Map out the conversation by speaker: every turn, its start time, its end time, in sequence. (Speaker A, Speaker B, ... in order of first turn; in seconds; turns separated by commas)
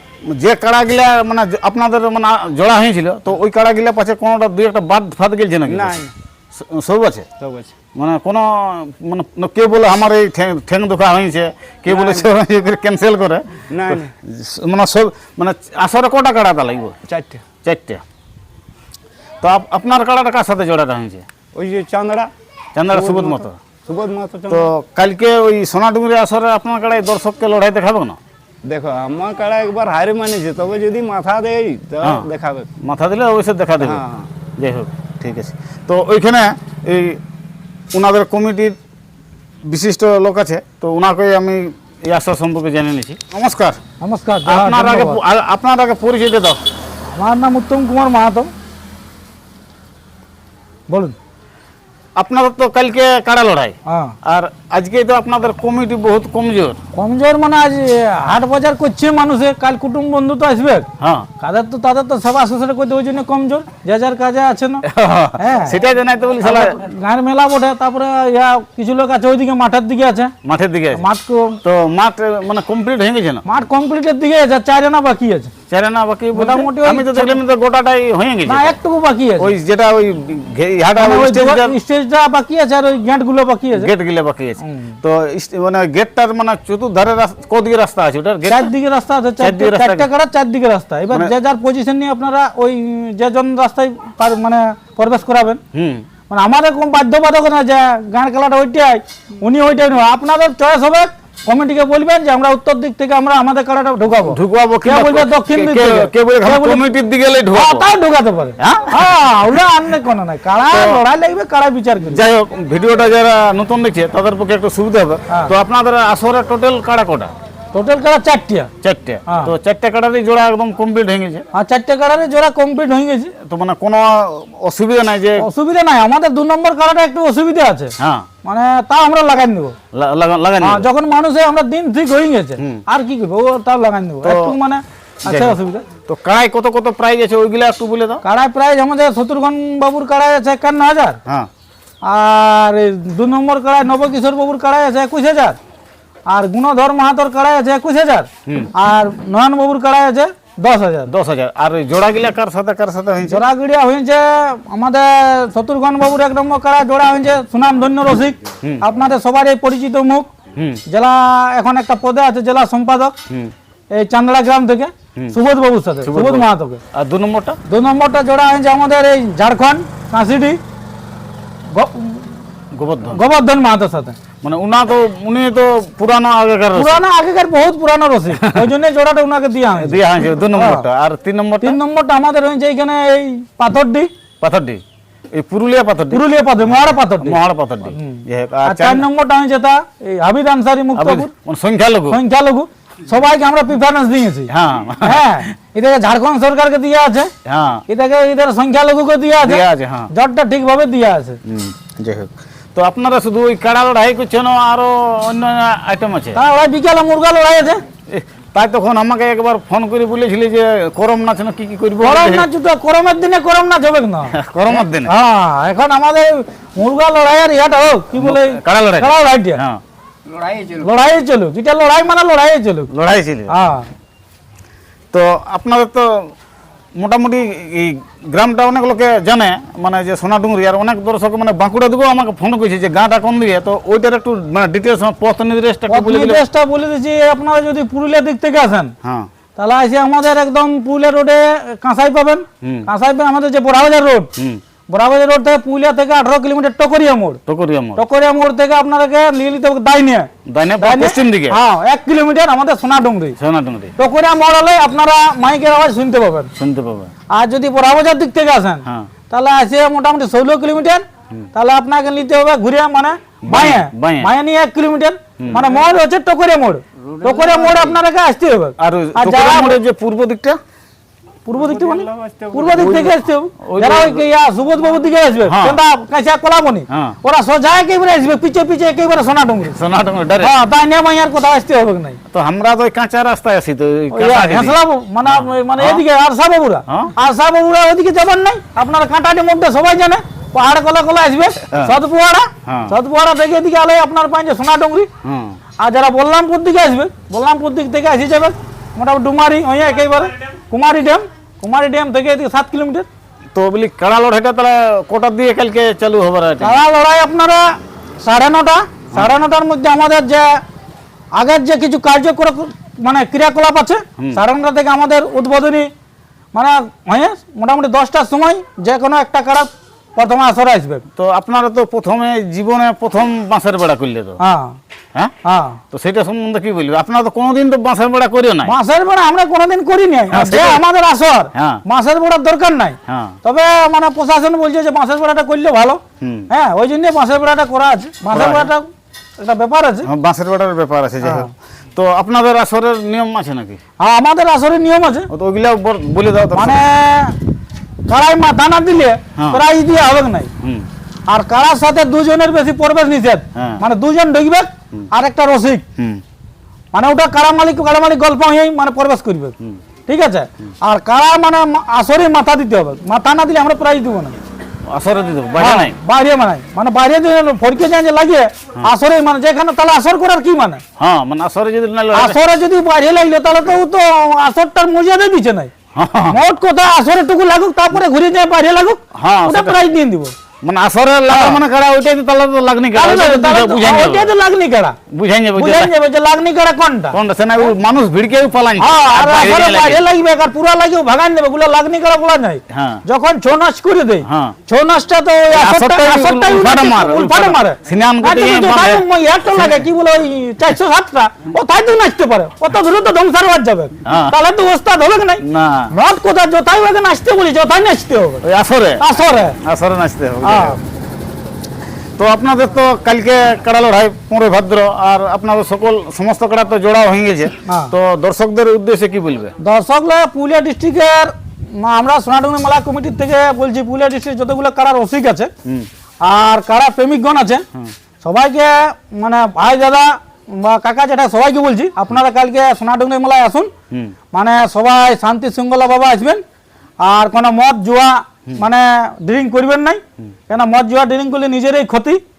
Speaker A: 0.2-6.0, Speaker B: 5.7-6.1, Speaker A: 6.5-7.3, Speaker B: 7.4-7.7, Speaker A: 8.0-16.9, Speaker B: 11.9-12.3, Speaker B: 13.7-14.1, Speaker B: 17.1-17.4, Speaker A: 17.6-18.0, Speaker A: 19.4-21.2, Speaker B: 21.5-22.3, Speaker A: 22.7-23.6, Speaker B: 22.9-24.7, Speaker A: 24.5-28.2, Speaker B: 28.6-32.7, Speaker A: 32.0-32.3, Speaker A: 32.8-34.0, Speaker B: 33.8-34.3, Speaker A: 34.6-37.2, Speaker A: 37.9-38.8, Speaker A: 39.6-43.8, Speaker C: 44.0-45.2, Speaker A: 44.5-46.6, Speaker C: 47.1-48.5, Speaker C: 50.9-51.1, Speaker A: 52.2-56.8, Speaker C: 53.9-54.1, Speaker C: 56.9-60.9, Speaker A: 61.0-61.3, Speaker C: 61.4-64.8, Speaker A: 64.8-66.8, Speaker C: 65.4-65.7, Speaker C: 66.4-70.3, Speaker A: 70.4-71.0, Speaker C: 70.9-71.6, Speaker A: 71.6-73.4, Speaker C: 73.4-75.5, Speaker A: 75.7-78.8, Speaker C: 76.3-77.4, Speaker C: 78.5-79.5, Speaker A: 79.4-81.7, Speaker C: 81.0-83.9, Speaker A: 83.7-88.7, Speaker C: 84.6-85.0, Speaker C: 88.5-95.6, Speaker A: 89.4-90.1, Speaker A: 95.7-96.1, Speaker C: 96.3-106.8, Speaker A: 104.2-107.9, Speaker C: 107.5-112.2, Speaker A: 108.6-109.0, Speaker A: 110.7-111.0, Speaker A: 112.1-117.3, Speaker C: 117.7-118.7, Speaker A: 118.8-121.4, Speaker C: 121.5-123.3, Speaker A: 123.4-125.5, Speaker C: 125.4-129.8, Speaker A: 128.0-128.2, Speaker A: 129.9-130.9, Speaker C: 130.6-135.8, Speaker A: 134.2-134.5, Speaker A: 135.2-138.2, Speaker C: 138.2-141.2, Speaker C: 142.0-145.6, Speaker C: 146.3-151.1, Speaker A: 151.1-153.4, Speaker C: 153.3-160.3, Speaker A: 160.6-160.8, Speaker C: 160.9-163.1, Speaker C: 163.9-166.8, Speaker A: 166.0-167.6, Speaker C: 167.7-170.6, Speaker C: 171.7-172.3, Speaker A: 172.7-173.2, Speaker C: 173.1-174.2, Speaker A: 174.4-177.0, Speaker C: 176.7-180.9, Speaker A: 179.7-181.8, Speaker C: 181.6-184.1, Speaker A: 184.4-184.8, Speaker A: 185.3-186.2, Speaker C: 186.1-187.4, Speaker A: 187.2-189.1, Speaker C: 187.9-191.3, Speaker A: 190.9-192.2, Speaker C: 192.1-194.5, Speaker A: 194.5-195.4, Speaker C: 195.0-197.3, Speaker A: 197.4-197.8, Speaker C: 197.9-201.4, Speaker A: 199.4-200.1, Speaker A: 201.4-206.4, Speaker C: 206.3-207.8, Speaker A: 208.1-212.5, Speaker C: 212.0-219.6, Speaker A: 214.3-215.1, Speaker A: 218.1-219.8, Speaker C: 220.7-222.9, Speaker A: 222.9-223.5, Speaker C: 223.5-223.9, Speaker A: 225.1-226.3, Speaker A: 227.0-236.4, Speaker C: 235.9-238.9, Speaker C: 239.6-244.3, Speaker C: 244.9-247.4, Speaker A: 247.5-248.0, Speaker C: 247.9-253.4, Speaker A: 250.5-251.6, Speaker A: 253.4-253.9, Speaker C: 254.0-256.5, Speaker A: 256.6-257.1, Speaker C: 257.3-269.8, Speaker A: 263.4-264.3, Speaker A: 265.4-265.6, Speaker B: 267.2-267.9, Speaker A: 268.8-270.6, Speaker C: 271.4-279.8, Speaker B: 271.6-273.0, Speaker A: 272.7-274.2, Speaker A: 275.4-275.8, Speaker A: 276.9-277.2, Speaker A: 279.6-280.5, Speaker C: 280.4-282.2, Speaker A: 282.3-286.0, Speaker C: 284.1-295.1, Speaker A: 291.7-292.0, Speaker A: 292.6-292.9, Speaker A: 295.2-295.6, Speaker C: 295.8-303.1, Speaker A: 303.5-306.8, Speaker C: 306.6-310.6, Speaker C: 311.3-315.9, Speaker C: 316.5-321.1, Speaker A: 321.1-324.4, Speaker C: 324.4-324.8, Speaker C: 325.4-325.8, Speaker A: 325.9-328.7, Speaker C: 328.6-338.9, Speaker A: 330.3-330.8, Speaker A: 331.5-331.8, Speaker A: 333.1-333.4, Speaker A: 336.2-336.5, Speaker A: 338.3-338.7, Speaker C: 339.4-340.1, Speaker A: 340.0-343.8, Speaker C: 341.2-341.5, Speaker C: 344.0-345.3, Speaker A: 345.3-346.8, Speaker C: 346.5-347.4, Speaker C: 348.1-350.5, Speaker A: 349.4-349.6, Speaker C: 351.3-355.8, Speaker A: 353.5-353.8, Speaker C: 356.9-364.4, Speaker A: 364.9-365.9, Speaker C: 365.6-370.8, Speaker A: 371.0-372.4, Speaker C: 372.1-375.7, Speaker A: 375.9-376.4, Speaker C: 376.3-380.3, Speaker A: 379.1-379.8, Speaker A: 380.6-384.3, Speaker C: 381.3-381.6, Speaker C: 382.9-385.0, Speaker A: 385.1-385.9, Speaker C: 385.6-387.2, Speaker A: 387.1-390.0, Speaker C: 388.8-408.4, Speaker A: 392.7-393.0, Speaker A: 394.2-394.5, Speaker A: 395.5-399.8, Speaker A: 404.0-404.3, Speaker A: 405.4-405.9, Speaker A: 408.4-409.0, Speaker C: 409.0-409.6, Speaker A: 409.6-410.8, Speaker C: 410.4-410.8, Speaker A: 412.2-419.5, Speaker C: 417.6-417.9, Speaker C: 419.6-425.5, Speaker C: 426.2-427.6, Speaker C: 428.2-433.7, Speaker C: 434.3-436.4, Speaker C: 437.0-442.2